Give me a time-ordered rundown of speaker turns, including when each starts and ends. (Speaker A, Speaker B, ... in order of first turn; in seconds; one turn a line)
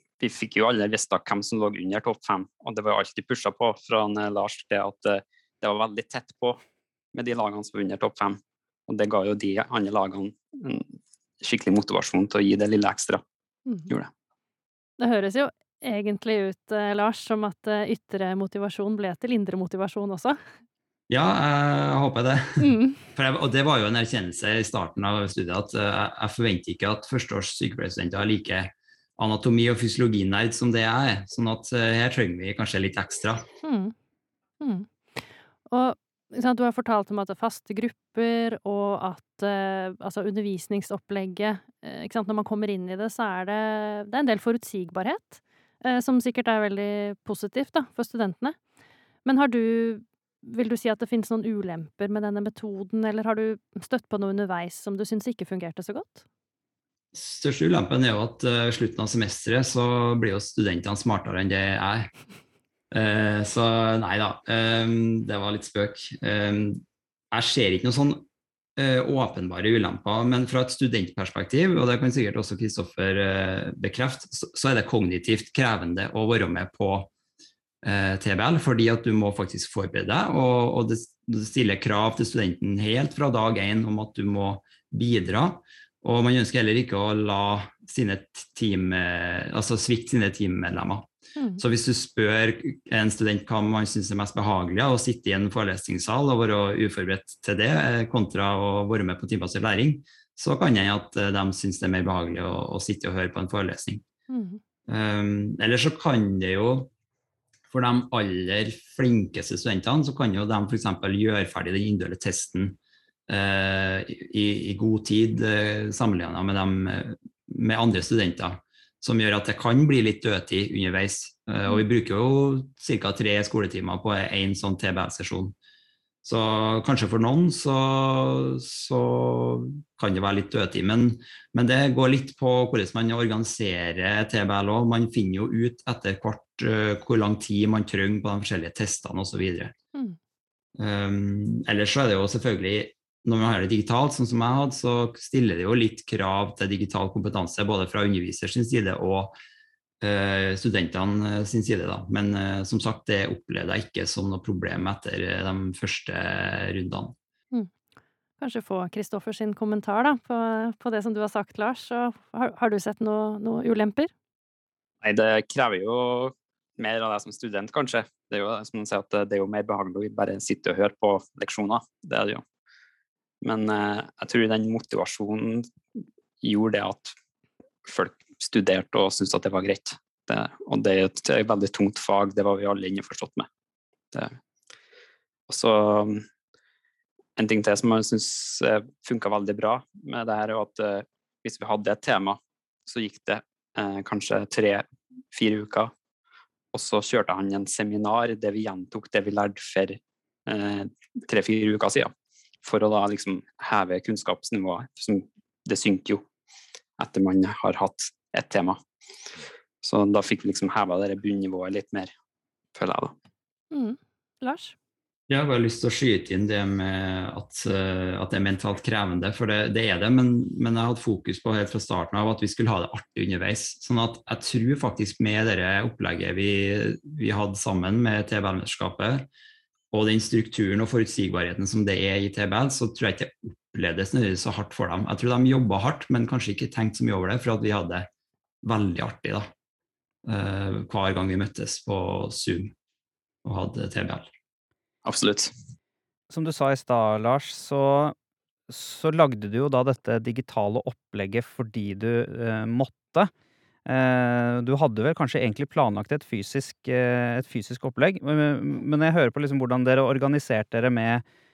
Speaker A: 0.2-6.6
Speaker A: 7.1-13.2
Speaker B: 15.0-20.4
Speaker C: 21.1-33.5
Speaker B: 22.6-23.0
Speaker B: 33.6-33.9
Speaker B: 34.6-48.6
Speaker B: 49.2-56.2
Speaker C: 57.1-62.1
Speaker C: 62.9-68.3
Speaker C: 68.8-77.1
Speaker C: 77.8-91.1
Speaker B: 91.4-91.6
Speaker C: 91.6-104.0
Speaker B: 104.3-104.6
Speaker C: 104.9-106.9
Speaker C: 107.7-125.5
Speaker C: 126.2-139.7
Speaker C: 140.8-149.4
Speaker C: 150.0-157.2
Speaker B: 158.4-164.1
Speaker A: 165.0-172.4
Speaker A: 173.4-175.7
Speaker A: 176.4-177.2
Speaker A: 177.8-183.5
Speaker A: 185.5-186.2
Speaker A: 187.4-195.9
Speaker A: 196.7-202.1
Speaker A: 202.6-206.2
Speaker A: 207.0-208.8
Speaker A: 209.8-212.1
Speaker A: 212.8-213.1
Speaker B: 213.7-214.8
Speaker C: 215.3-229.3
Speaker C: 229.9-238.1
Speaker C: 238.6-239.5
Speaker C: 240.3-242.7
Speaker C: 243.4-244.3
Speaker A: 245.1-245.5
Speaker D: 246.3-248.2
Speaker D: 248.7-253.3
Speaker D: 253.9-261.2